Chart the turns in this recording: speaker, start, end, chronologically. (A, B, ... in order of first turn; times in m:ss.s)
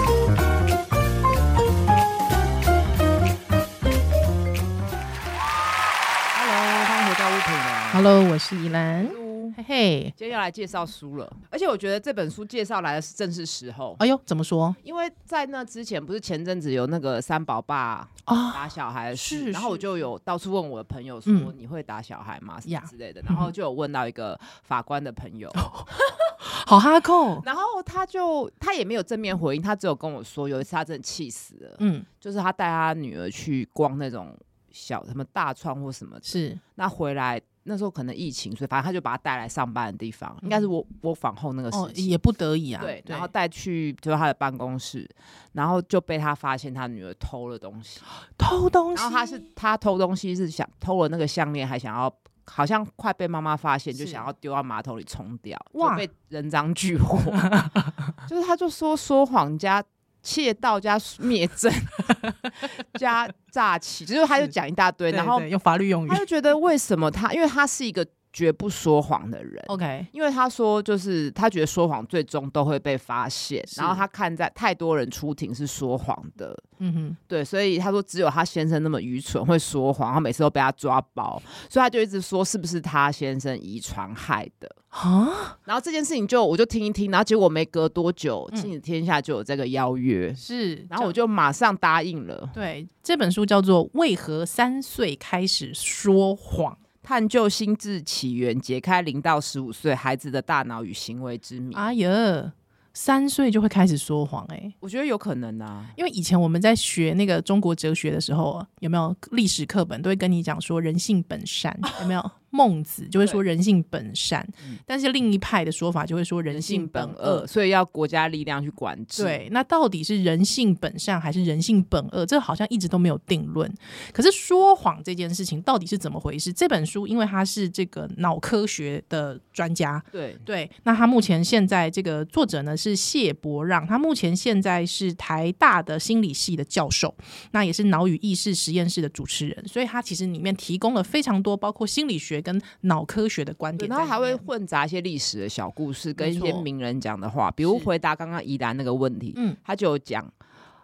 0:06.3-0:08.1 A
0:07.9-0:10.1 B
0:09.0-0:09.6 A
0:10.2-0:14.0 A
0:14.0-0:14.8 B
0:14.8-0:26.2 A
0:18.3-0:19.8 B
0:21.3-0:21.5 B
0:22.7-0:23.5 B
0:25.6-0:25.9 B
0:26.4-0:27.4 B
0:27.4-0:42.1 A
0:31.8-0:32.1 B
0:36.3-0:36.6 B
0:41.7-0:43.3 B
0:42.8-0:48.0 A
0:48.4-0:49.4 B
0:49.0-0:57.5 A
0:54.0-0:54.2 B
0:55.8-0:56.0 B
0:57.4-0:57.9 B
0:58.3-1:05.5 A
1:05.1-1:06.2 B
1:06.1-1:16.6 A
1:09.7-1:10.1 B
1:13.7-1:14.0 B
1:16.8-1:17.2 B
1:17.3-1:24.8 A
1:24.9-1:25.6 B
1:25.7-1:32.5 A
1:30.4-1:31.1 B
1:32.5-1:36.8 B
1:37.0-1:41.9 A
1:41.7-1:44.8 B
1:44.8-1:46.0 A
1:46.0-1:57.5 B
1:56.5-1:59.4 A
1:59.2-2:24.4 B
2:10.1-2:10.4 A
2:23.8-2:30.3 A
2:26.2-2:26.7 B